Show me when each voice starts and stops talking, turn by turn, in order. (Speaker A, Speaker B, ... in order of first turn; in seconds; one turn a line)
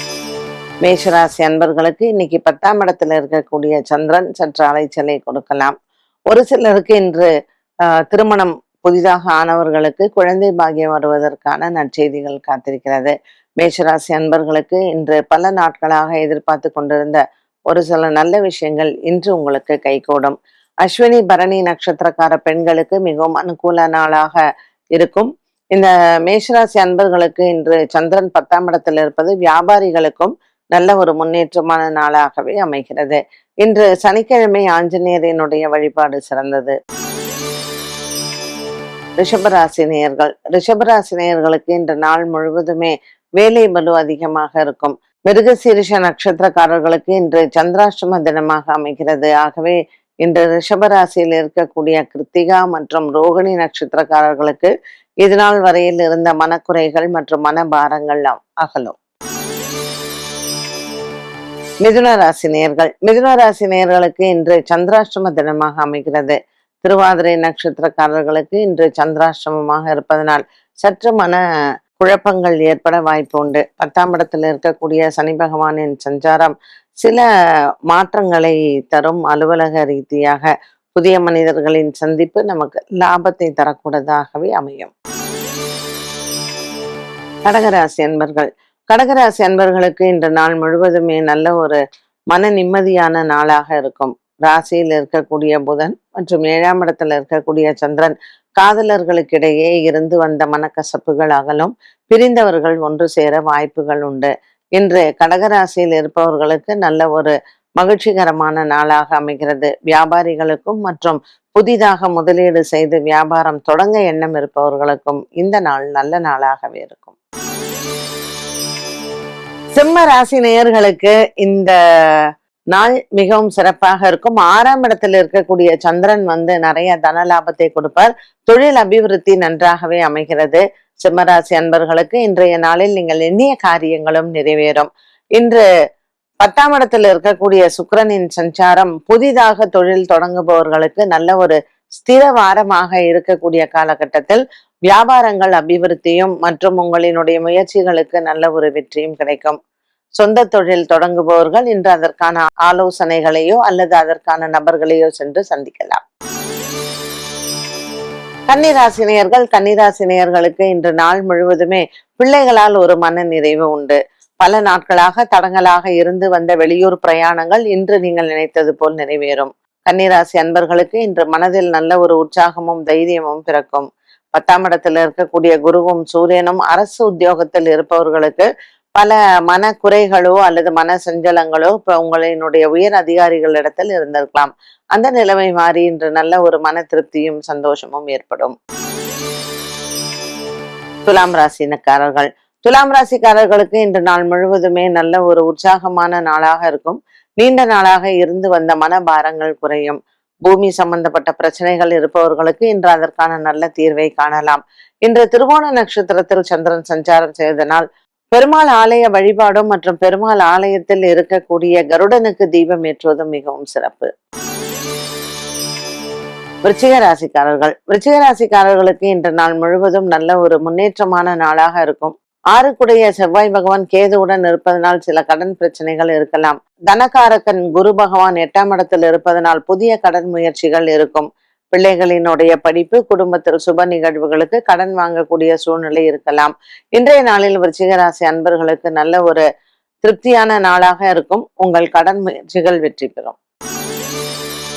Speaker A: 0.8-5.7
Speaker A: 6.3-7.3
Speaker A: 8.1-24.4
Speaker A: 25.0-36.8
Speaker A: 39.2-54.7
Speaker A: 55.2-59.0
Speaker A: 61.8-71.4
Speaker A: 72.0-77.2
Speaker A: 77.9-84.9
Speaker A: 87.5-91.8
Speaker A: 92.3-117.1
Speaker A: 119.8-121.7
Speaker A: 122.7-135.6
Speaker A: 136.4-149.6
Speaker A: 150.2-156.0
Speaker A: 158.5-188.6
Speaker A: 191.1-214.1
Speaker A: 216.6-239.4
Speaker A: 240.0-243.4